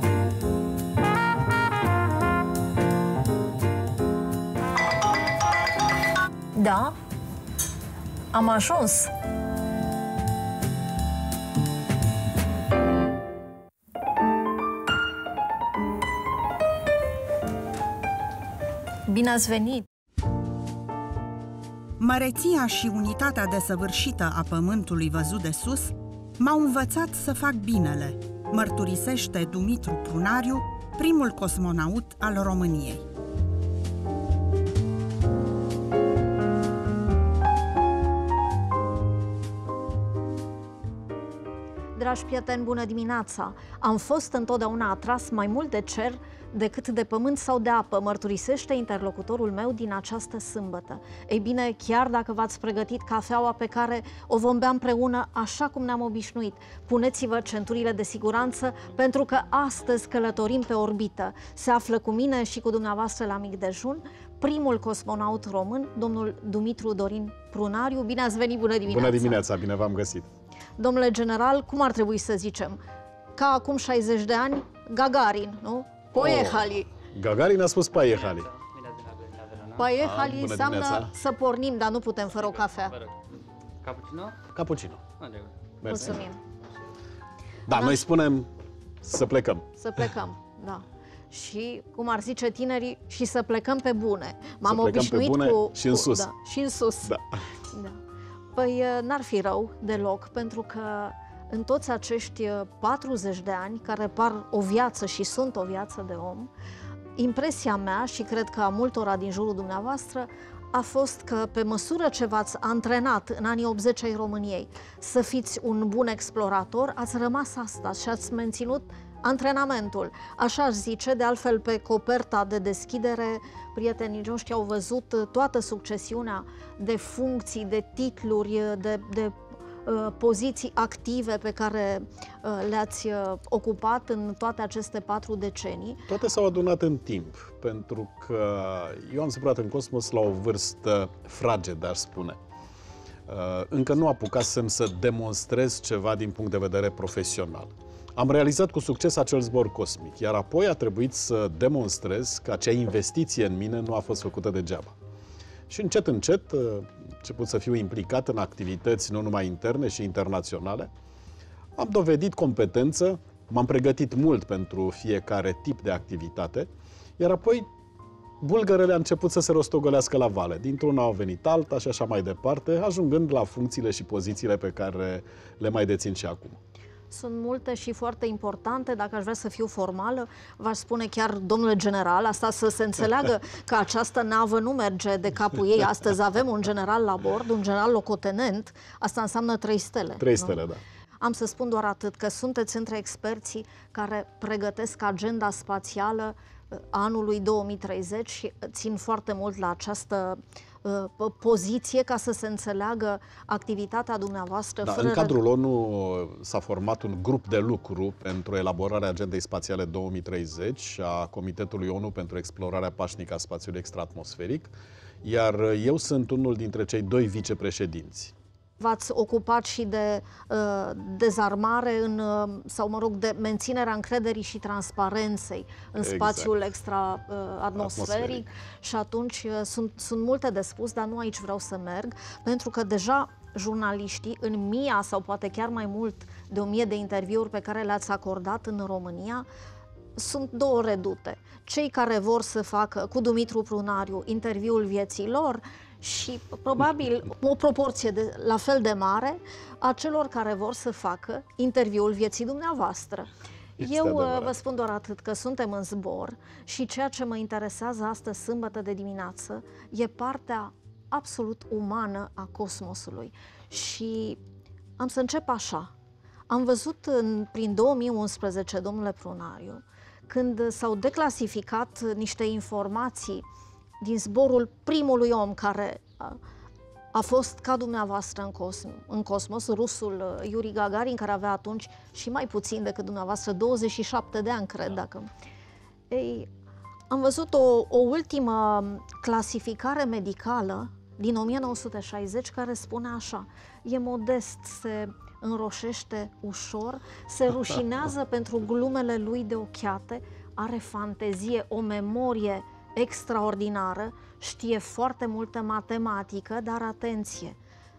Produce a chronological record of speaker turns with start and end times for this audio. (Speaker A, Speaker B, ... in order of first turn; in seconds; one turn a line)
Speaker A: 6.5-7.0
Speaker A: 8.3-9.1
Speaker A: 19.1-19.9
Speaker B: 22.0-33.0
Speaker A: 42.0-69.4
Speaker C: 68.9-70.3
Speaker A: 70.8-72.8
Speaker A: 73.4-76.9
Speaker C: 76.2-78.5
Speaker D: 77.9-79.9
Speaker A: 79.8-83.0
Speaker C: 80.0-81.1
Speaker D: 82.4-84.4
Speaker C: 84.5-85.0
Speaker D: 85.2-85.5
Speaker C: 85.8-86.2
Speaker A: 85.8-86.4
Speaker C: 87.7-88.5
Speaker A: 87.7-88.1
Speaker C: 89.0-90.0
Speaker A: 89.8-97.1
Speaker C: 94.6-96.3
Speaker A: 97.7-98.0
Speaker A: 98.5-106.5
Speaker A: 107.2-136.1
Speaker C: 136.1-142.4
Speaker C: 143.3-154.9
Speaker C: 155.7-160.9
Speaker C: 161.8-167.7
Speaker C: 168.4-176.6
Speaker A: 177.1-190.6
Speaker C: 190.2-190.8
Speaker A: 191.2-205.4
Speaker C: 204.8-214.7
Speaker C: 215.2-218.3
Speaker A: 218.8-239.4
Speaker C: 226.0-226.5
Speaker C: 227.8-228.4
Speaker A: 240.2-264.4
Speaker C: 253.8-254.5
Speaker A: 265.0-265.9
Speaker A: 266.5-273.4
Speaker A: 274.0-276.4
Speaker A: 277.1-285.3
Speaker A: 286.1-286.5
Speaker A: 287.1-307.6